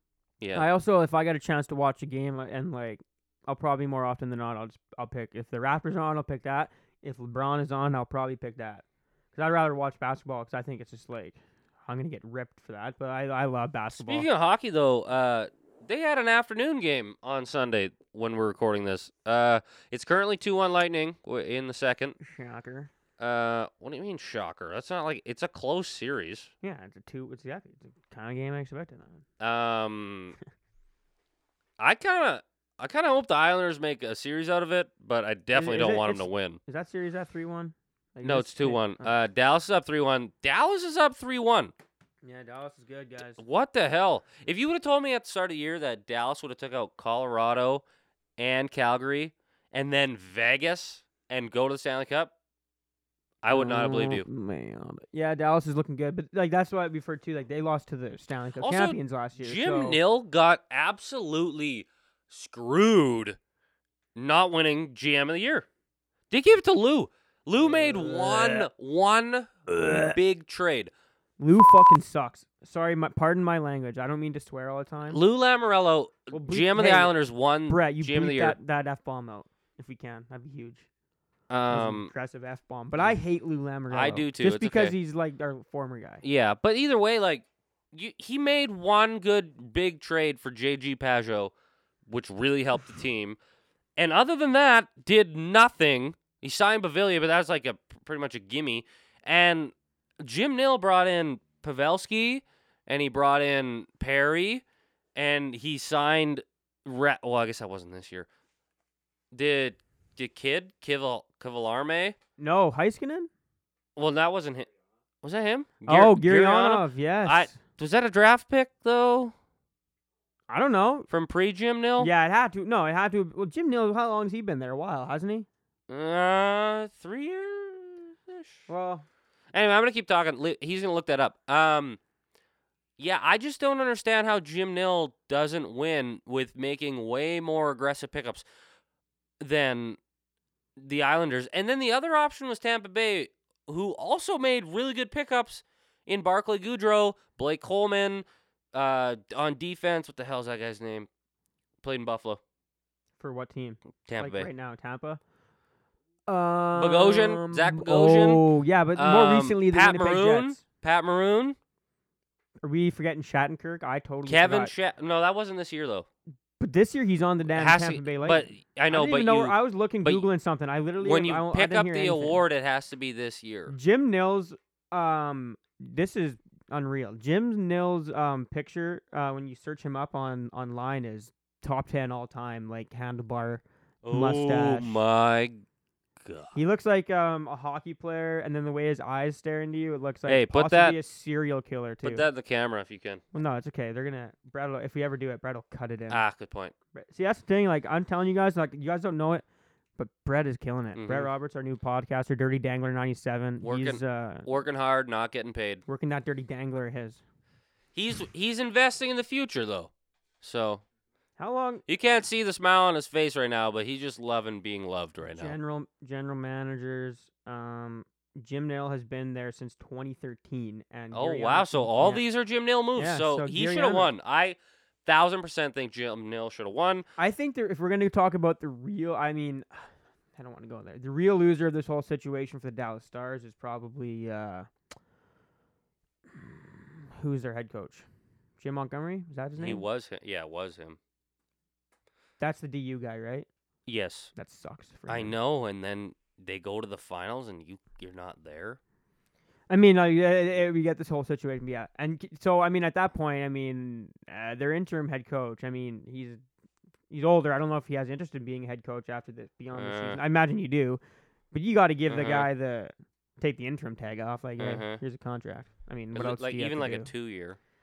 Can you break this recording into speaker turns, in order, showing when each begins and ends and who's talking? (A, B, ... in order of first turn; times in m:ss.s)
0:00.4-0:00.7 A
0:00.5-0:14.3 B
0:14.0-0:22.2 A
0:22.2-0:22.9 B
0:23.2-0:26.5 A
0:26.6-0:29.2 B
0:29.4-0:30.4 A
0:31.8-0:36.6 A
0:35.5-0:39.1 B
0:38.2-0:41.7 A
0:42.2-0:43.4 B
0:43.4-0:47.8 A
0:48.4-0:52.3 A
0:53.4-0:54.3 A
0:53.5-1:00.0 B
0:58.6-1:03.4 A
1:04.2-1:05.7 A
1:06.3-1:10.9 A
1:07.6-1:08.7 B
1:09.7-1:10.2 B
1:11.4-1:15.2 B
1:15.1-1:18.6 A
1:16.3-1:17.1 B
1:17.7-1:20.9 B
1:21.5-1:22.1 A
1:21.7-1:26.2 B
1:23.9-1:25.0 A
1:26.2-1:31.5 A
1:32.1-1:33.4 A
1:34.0-1:44.6 A
1:45.2-1:48.3 A
1:49.3-1:52.2 A
1:52.4-1:53.3 B
1:54.0-1:54.7 A
1:55.2-1:59.3 A
1:55.9-1:57.6 B
2:00.5-2:01.1 B
2:01.1-2:02.1 A
2:02.0-2:05.5 B
2:05.9-2:08.6 A
2:08.7-2:09.0 B
2:09.5-2:12.0 A
2:13.0-2:18.4 A
2:19.4-2:20.0 A
2:20.8-2:31.1 A
2:31.8-2:32.4 A
2:33.2-2:35.2 B
2:34.0-2:34.5 A
2:36.3-2:40.6 B
2:36.8-2:41.6 A
2:42.6-2:44.7 B
2:44.2-2:46.1 A
2:46.6-2:52.4 B
2:47.5-2:50.3 A
2:51.0-2:53.8 A
2:53.7-3:05.0 B
3:04.0-3:05.6 A
3:06.2-3:06.5 A
3:06.5-3:12.3 B
3:10.3-3:11.0 A
3:12.0-3:13.2 A
3:13.3-3:16.2 B
3:16.1-3:16.7 A
3:16.9-3:19.4 B
3:20.0-3:24.5 B
3:21.0-3:21.3 A
3:23.6-3:25.8 A
3:25.9-3:27.2 B
3:28.0-3:30.8 A
3:31.4-3:31.8 B
3:31.9-3:35.6 A
3:35.2-3:42.2 B
3:41.1-3:47.1 A
3:43.0-3:44.1 B
3:47.2-3:54.7 B
3:56.3-3:58.1 B
3:58.6-3:59.8 B
3:59.6-4:01.0 A
4:02.4-4:03.5 B
4:03.9-4:04.3 A
4:04.4-4:05.4 B
4:05.1-4:08.8 A
4:09.7-4:16.4 B
4:17.1-4:21.0 B
4:19.7-4:20.2 A
4:21.5-4:27.1 B
4:22.1-4:22.5 A
4:24.6-4:25.0 A
4:26.1-4:27.6 A